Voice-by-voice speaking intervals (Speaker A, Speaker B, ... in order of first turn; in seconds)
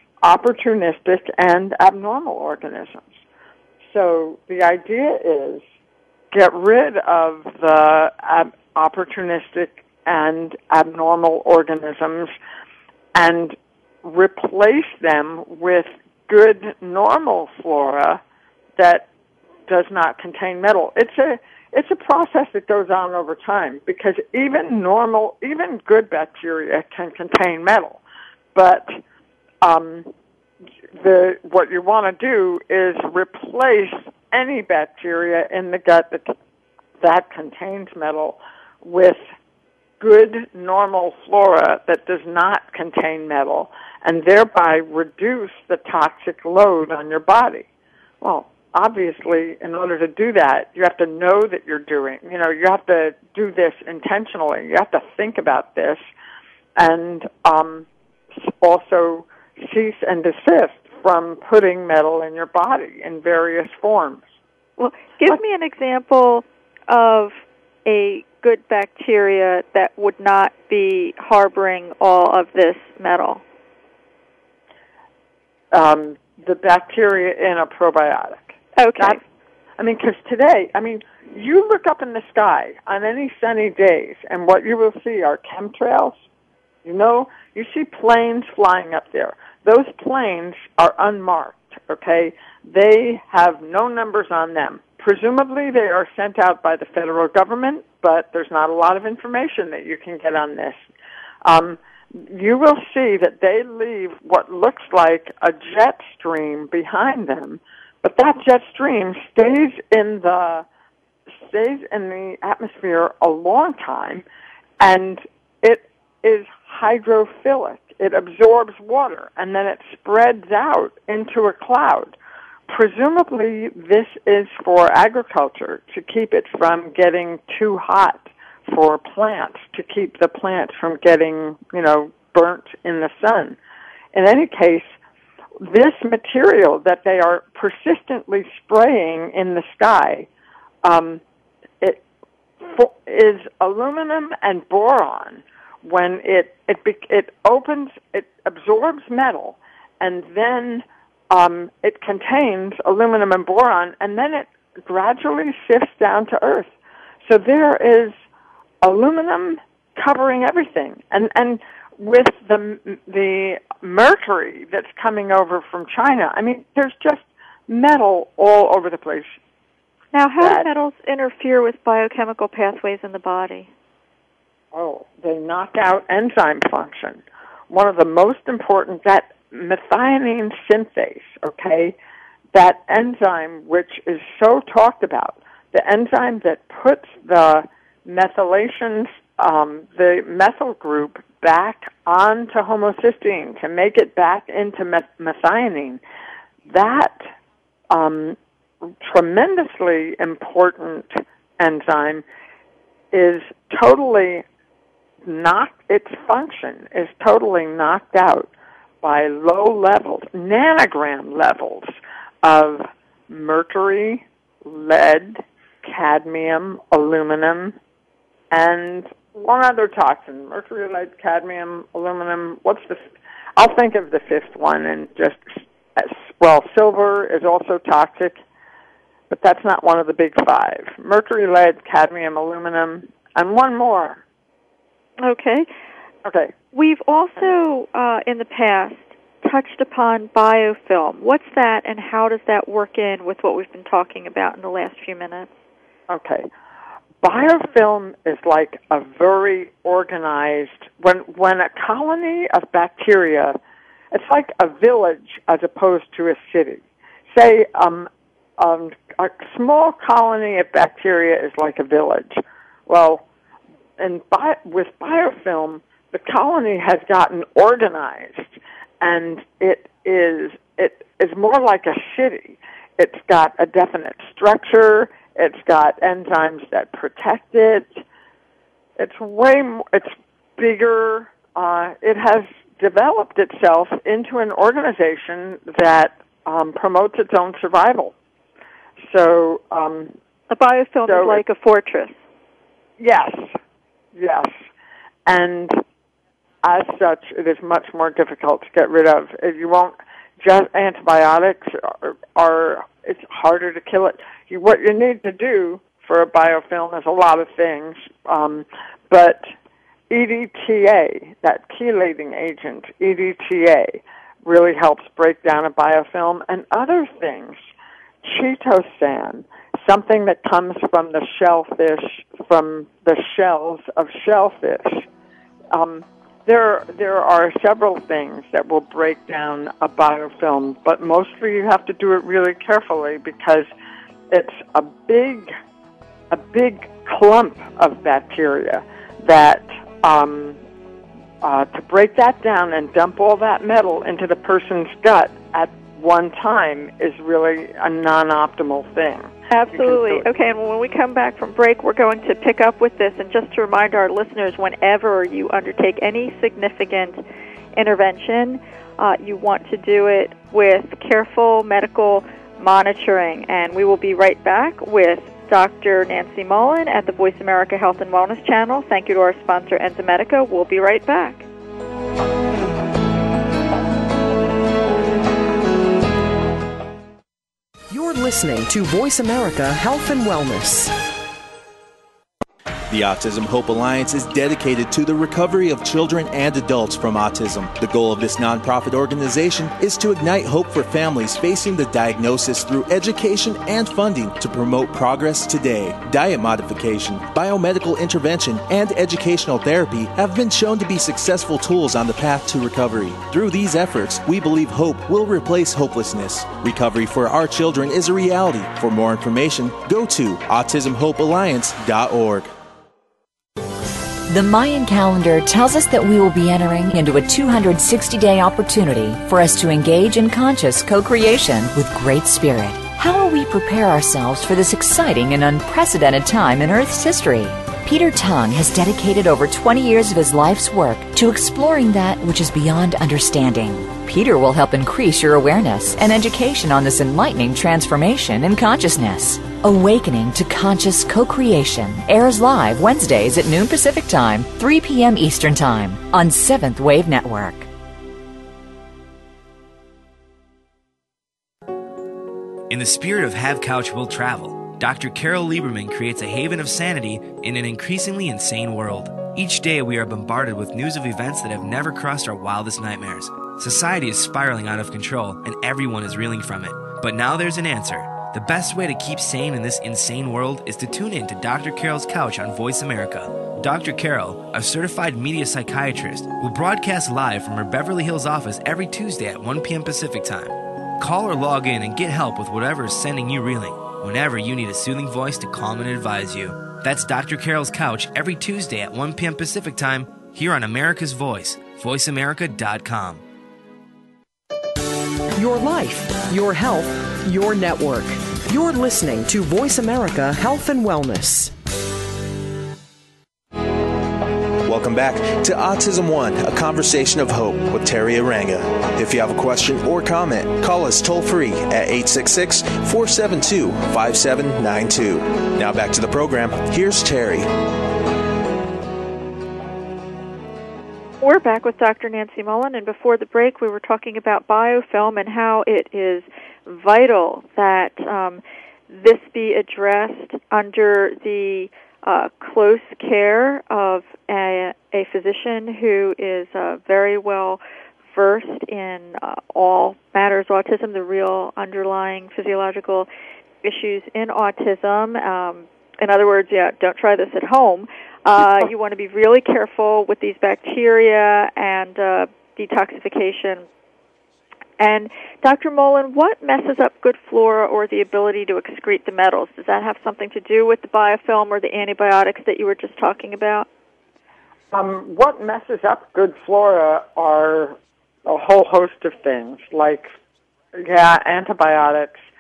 Speaker A: 0.2-3.1, 3.9-5.6, 6.3-12.3, 13.1-18.2, 18.8-19.1, 19.7-28.0, 28.6-29.0, 29.6-30.1, 31.0-36.3, 37.0-39.2, 40.0-47.7, 48.2-56.0, 56.8-57.9, 58.4-64.2, 75.7-79.2, 79.8-86.2, 86.8-100.8, 101.5-110.7, 111.4-114.2, 114.8-122.2, 122.7-133.6, 134.1-134.9, 135.6-140.3, 140.8-141.2, 142.6-156.7, 157.3-158.1, 158.8-169.4, 170.4-170.7, 174.7-182.0, 182.5-196.0, 196.7-197.2, 197.9-198.4, 199.0-202.2, 203.1-204.4, 205.3-208.5, 209.0-217.8, 218.5-223.0, 223.6-228.4, 229.3-234.2, 236.2-236.5, 246.1-246.5, 247.2-253.6, 254.1-263.2, 264.0-278.0, 279.0-288.1, 289.1-290.1, 291.1-291.4, 293.0-293.6, 294.1-294.5, 295.3-295.8, 296.6-309.5, 310.1-317.6, 318.2-325.1, 325.7-333.7, 334.3-335.5, 336.3-340.6, 341.4-350.3, 564.7-570.1, 570.8-572.1
Speaker B: 64.8-73.4, 78.8-79.2, 170.1-173.7, 235.2-235.7, 236.7-245.5, 290.5-292.1, 349.5-357.2, 357.8-371.5, 521.2-537.6, 538.1-543.1, 543.6-553.7, 554.8-563.7
Speaker C: 377.9-380.9, 495.4-501.5
Speaker D: 382.9-412.5, 504.6-517.5
Speaker E: 414.3-447.7
Speaker F: 452.7-493.2